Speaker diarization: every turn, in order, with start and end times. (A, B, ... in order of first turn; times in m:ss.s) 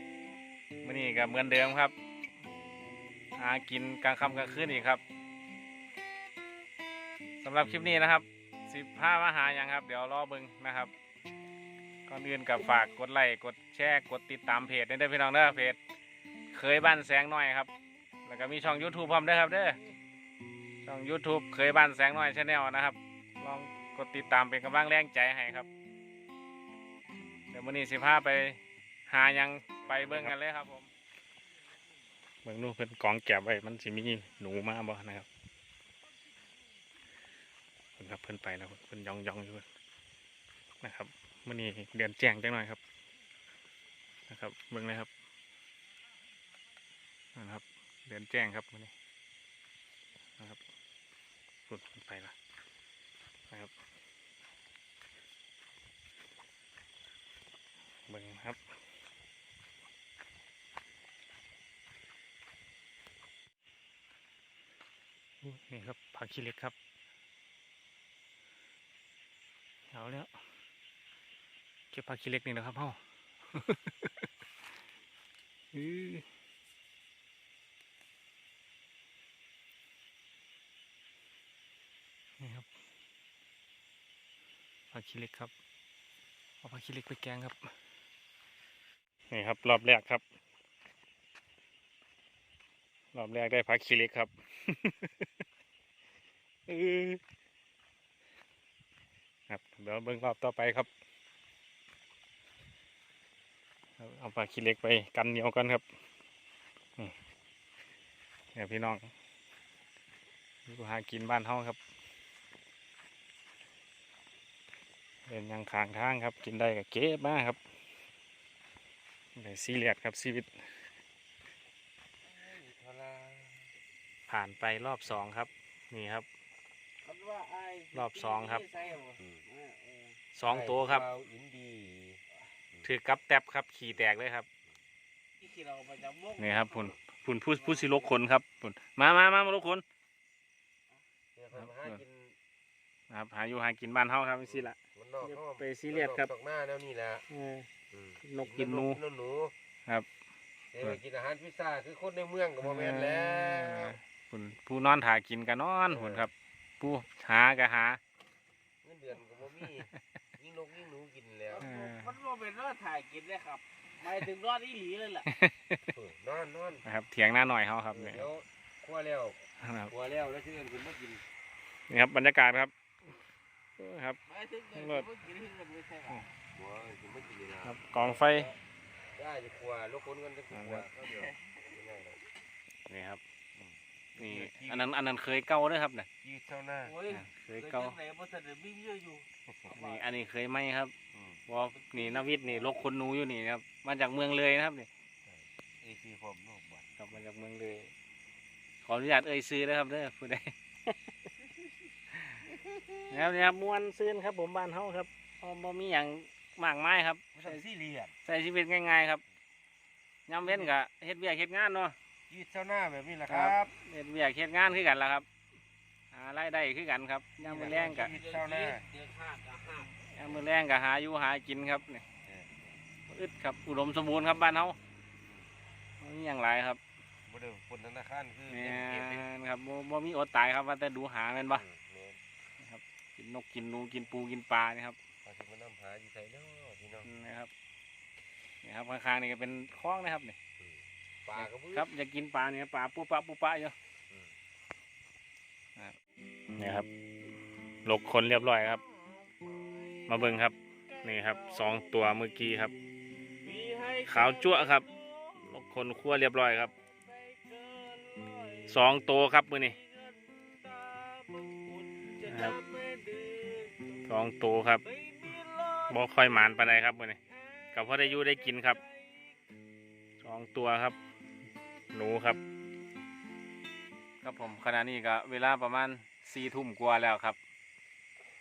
0:00.8-0:01.9 A
0:03.4-0:05.0 A
0:07.4-0:10.9 A
0:12.1-0:15.8 A
0:16.5-0:17.7 A
0:18.2-0:19.8 A
0:20.8-0:25.7 A
0:27.5-0:30.9 A
0:30.0-0:30.3 B
0:32.4-0:35.3 A
0:38.0-0:39.7 A
0:40.8-0:42.8 A
0:44.3-0:45.1 A
0:47.3-0:48.9 A
0:51.7-0:52.3 A
0:58.1-0:58.6 A
1:05.4-1:06.7 A
1:09.9-1:10.3 A
1:11.9-1:13.0 A
1:13.5-1:14.1 A
1:15.7-1:16.2 A
1:22.4-1:22.7 A
1:24.9-1:25.5 A
1:26.6-1:27.7 A
1:29.3-1:30.2 A
1:33.1-1:35.2 A
1:36.7-1:37.2 A
1:39.5-1:40.9 A
1:44.0-1:45.8 A
1:48.5-1:49.1 A
1:50.7-1:51.8 A
1:55.3-1:57.6 A
1:59.4-2:00.5 A
2:02.2-2:03.7 B
2:04.3-2:06.2 A
2:07.0-2:10.1 C
2:07.9-2:08.7 A
2:10.3-2:11.0 A
2:10.4-2:12.2 B
2:12.8-2:14.5 A
2:15.4-2:16.7 C
2:16.4-2:19.8 A
2:17.7-2:18.0 C
2:21.3-2:22.4 B
2:21.6-2:22.0 A
2:23.1-2:26.3 A
2:24.5-2:27.2 B
2:27.3-2:27.7 A
2:27.9-2:29.5 B
2:28.2-2:29.0 A
2:30.7-2:34.0 B
2:32.6-2:38.0 A
2:35.9-2:36.3 B
2:38.8-2:41.6 B
2:41.6-2:45.2 C
2:41.6-2:42.2 A
2:45.2-2:45.9 A
2:45.9-2:46.8 B
2:46.8-2:48.2 A
2:47.9-2:51.2 B
2:49.6-2:49.9 A
2:51.9-2:52.7 A
2:53.8-2:54.2 A
2:54.3-2:56.2 C
2:54.7-2:55.1 A
2:56.5-2:58.5 B
2:57.6-2:58.5 A
2:59.1-3:02.2 B
3:00.5-3:00.8 A
3:02.9-3:03.2 A
3:03.6-3:04.9 B
3:04.2-3:06.1 A
3:06.2-3:07.0 B
3:06.9-3:09.2 C
3:07.1-3:08.0 A
3:09.4-3:09.8 B
3:09.7-3:10.9 A
3:11.1-3:11.4 B
3:11.5-3:14.9 A
3:11.8-3:12.3 C
3:15.2-3:17.0 B
3:17.0-3:17.9 A
3:18.8-3:20.9 A
3:23.1-3:27.6 A
3:27.3-3:28.1 B
3:28.2-3:29.2 A
3:30.3-3:32.0 A
3:32.3-3:33.7 B
3:33.3-3:35.2 A
3:36.1-3:38.1 A
3:37.4-3:38.9 B
3:38.0-3:39.9 C
3:39.9-3:42.0 A
3:42.2-3:42.8 B
3:43.1-3:44.8 A
3:45.2-3:45.5 B
3:46.0-3:46.8 A
3:47.2-3:49.2 B
3:48.5-3:51.6 A
3:51.5-3:52.2 B
3:52.6-3:55.0 A
3:55.2-3:57.1 B
3:57.0-3:57.5 A
3:58.6-4:00.4 A
4:00.6-4:01.9 B
4:01.4-4:03.7 A
4:06.6-4:06.9 A
4:07.8-4:08.8 A
4:10.1-4:12.7 A
4:13.4-4:15.2 C
4:14.0-4:16.7 A
4:17.0-4:18.7 C
4:18.7-4:19.8 A
4:19.8-4:23.8 C
4:22.2-4:22.6 A
4:24.0-4:24.8 A
4:24.9-4:25.9 C
4:25.9-4:27.2 A
4:27.7-4:28.8 A
4:28.0-4:28.7 C
4:30.2-4:31.0 A
4:31.9-4:32.4 A
4:34.2-4:37.4 A